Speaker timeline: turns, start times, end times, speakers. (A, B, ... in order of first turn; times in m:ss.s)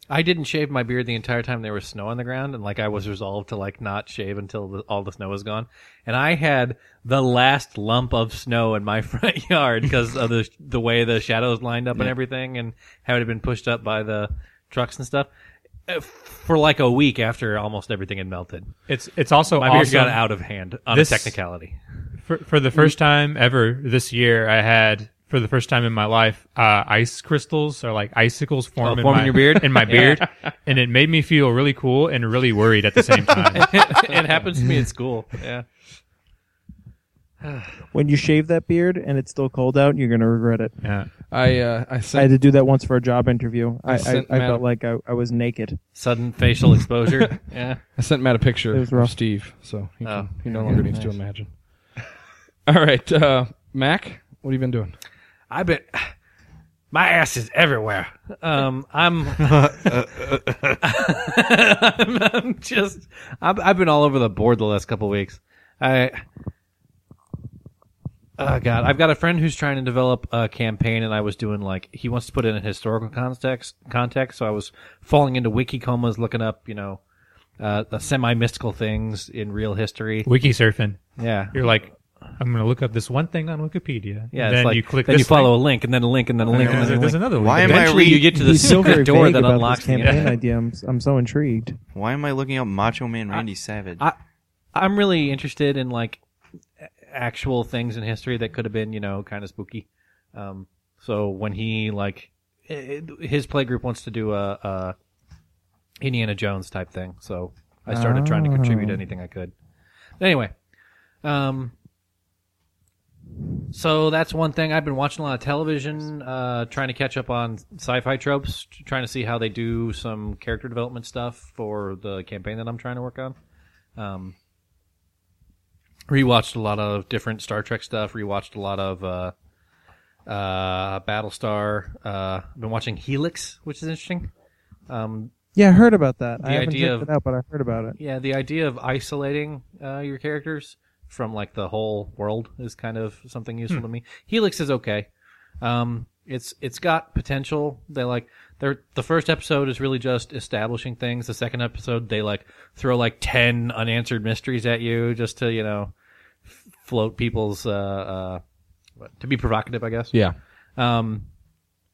0:00.1-0:15.3 A
0:15.9-0:18.7 A
0:18.9-0:20.2 B
0:19.6-0:21.8 A
0:20.9-0:21.4 B
0:22.2-0:33.8 B
0:28.8-0:30.2 A
0:33.5-0:35.6 A
0:37.4-0:37.7 A
0:37.9-0:40.8 C
0:40.8-0:41.1 B
0:41.3-0:42.3 D
0:42.1-0:45.8 C
0:43.8-0:44.6 D
0:45.9-0:47.8 A
0:48.0-0:51.5 D
0:48.7-0:49.1 C
0:50.0-0:51.1 A
0:52.7-0:54.9 D
0:55.5-0:56.1 A
0:56.9-0:59.9 A
0:59.4-1:00.8 E
1:00.8-1:06.2 A
1:08.4-1:17.0 A
1:17.6-1:20.3 A
1:20.2-1:25.5 B
1:21.2-1:21.6 A
1:24.3-1:30.4 A
1:26.5-1:28.2 B
1:26.5-1:28.3 E
1:28.2-1:31.8 C
1:31.9-1:34.0 E
1:34.7-1:36.2 A
1:37.1-1:44.9 A
1:46.0-1:49.5 A
1:47.9-1:49.0 C
1:50.2-1:50.5 A
1:51.2-1:51.7 A
1:53.7-2:03.3 A
2:04.0-2:04.3 A
2:06.1-2:09.3 A
2:10.3-2:14.3 A
2:14.9-2:15.3 A
2:15.5-2:18.0 C
2:16.4-2:17.1 A
2:18.0-2:25.1 A
2:25.6-2:35.9 A
2:36.8-2:38.4 A
2:39.0-2:40.2 A
2:40.8-2:41.2 A